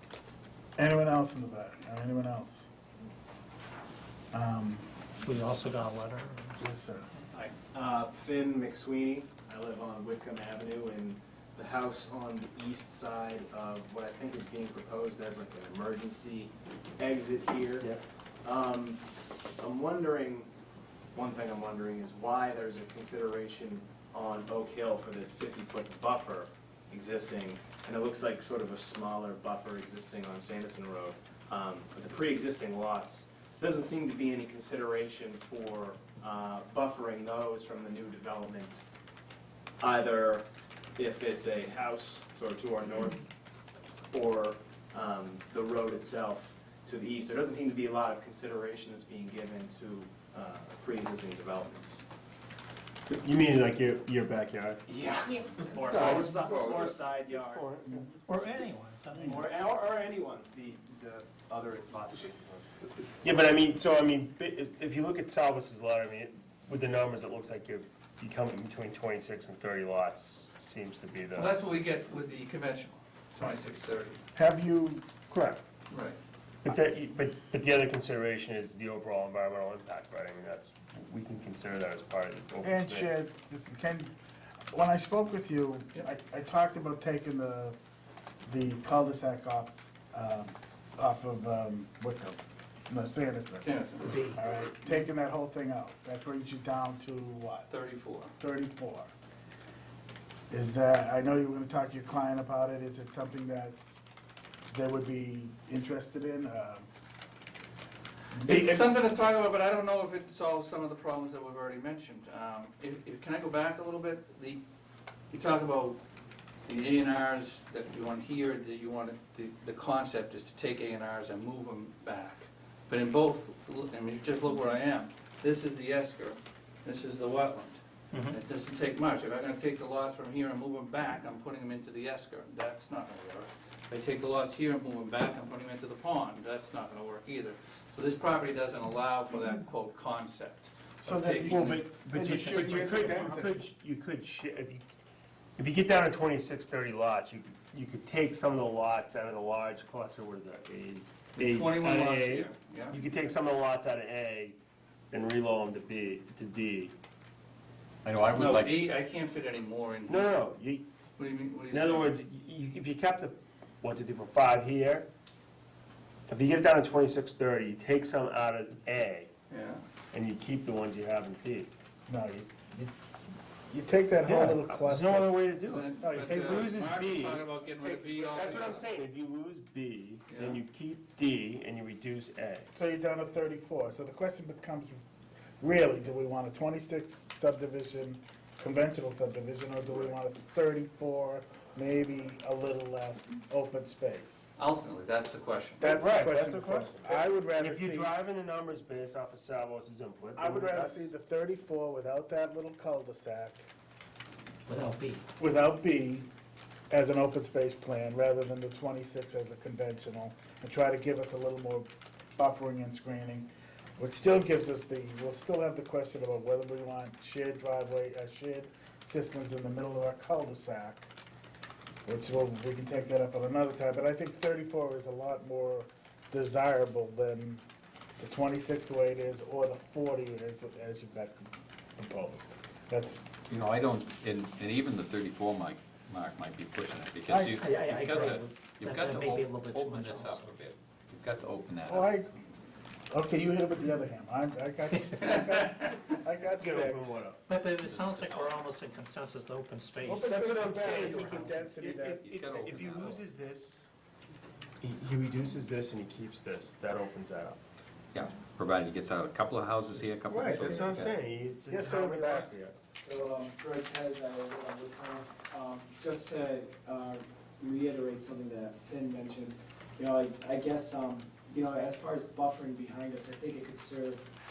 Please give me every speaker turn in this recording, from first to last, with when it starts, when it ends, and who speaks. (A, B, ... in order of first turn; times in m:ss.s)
0:00.8-0:02.7 A
0:04.3-0:04.9 A
0:05.2-0:06.6 B
0:06.6-0:07.1 A
0:07.7-0:17.9 C
0:18.4-0:19.0 C
0:19.6-0:20.5 C
0:21.1-0:38.8 C
0:39.8-0:40.4 C
0:41.0-0:43.2 C
0:44.1-0:52.0 C
0:53.1-0:54.8 D
0:54.9-0:57.7 C
0:55.8-0:56.5 D
0:55.9-0:56.1 E
0:57.2-0:58.1 D
0:58.3-0:59.4 B
0:59.1-1:03.1 C
1:03.2-1:11.6 D
1:11.3-1:14.2 F
1:14.3-1:15.0 A
1:15.3-1:15.6 D
1:15.9-1:16.2 F
1:16.6-1:23.2 D
1:22.6-1:24.1 A
1:24.7-1:27.8 A
1:28.5-1:33.7 A
1:33.6-1:34.2 F
1:34.0-1:34.4 B
1:34.3-1:37.7 A
1:37.7-1:38.3 F
1:38.4-1:39.1 A
1:40.5-1:44.0 A
1:44.7-1:46.9 A
1:48.3-1:48.9 A
1:48.5-1:54.6 F
1:55.3-1:56.0 F
1:56.6-2:21.8 F
2:21.0-2:23.6 A
2:21.4-2:24.8 D
2:25.6-2:34.6 D
2:31.4-2:33.0 F
2:35.1-2:36.9 D
2:38.0-2:38.9 G
2:38.3-2:40.4 F
2:40.1-2:40.8 D
2:41.2-2:42.2 F
2:41.7-2:45.1 D
2:46.3-2:49.3 D
2:49.5-2:49.8 F
2:50.1-2:51.7 D
2:52.1-2:52.9 A
2:53.7-2:55.4 A
2:54.2-3:02.7 D
2:55.7-2:58.8 F
2:56.0-2:56.8 A
3:00.3-3:00.6 F
3:02.7-3:05.0 A
3:05.6-3:14.5 A
3:14.6-3:15.9 F
3:15.8-3:18.1 A
3:15.8-3:21.1 D
3:20.4-3:23.6 A
3:24.7-3:25.2 B
3:25.4-3:26.3 A
3:26.9-3:41.1 A
3:42.0-3:47.6 A
3:48.2-3:53.2 A
3:53.5-4:02.1 G
3:57.3-3:57.6 A
3:57.5-4:00.6 B
4:01.8-4:02.3 A
4:03.1-4:07.2 A
4:05.2-4:06.0 F
4:06.6-4:07.4 D
4:07.5-4:11.6 B
4:07.8-4:08.7 G
4:10.0-4:12.2 A
4:10.2-4:13.8 D
4:12.2-4:13.2 G
4:14.8-4:17.6 D
4:18.1-4:21.1 G
4:20.2-4:22.7 D
4:20.4-4:21.1 A
4:21.7-4:22.8 A
4:22.9-4:34.2 E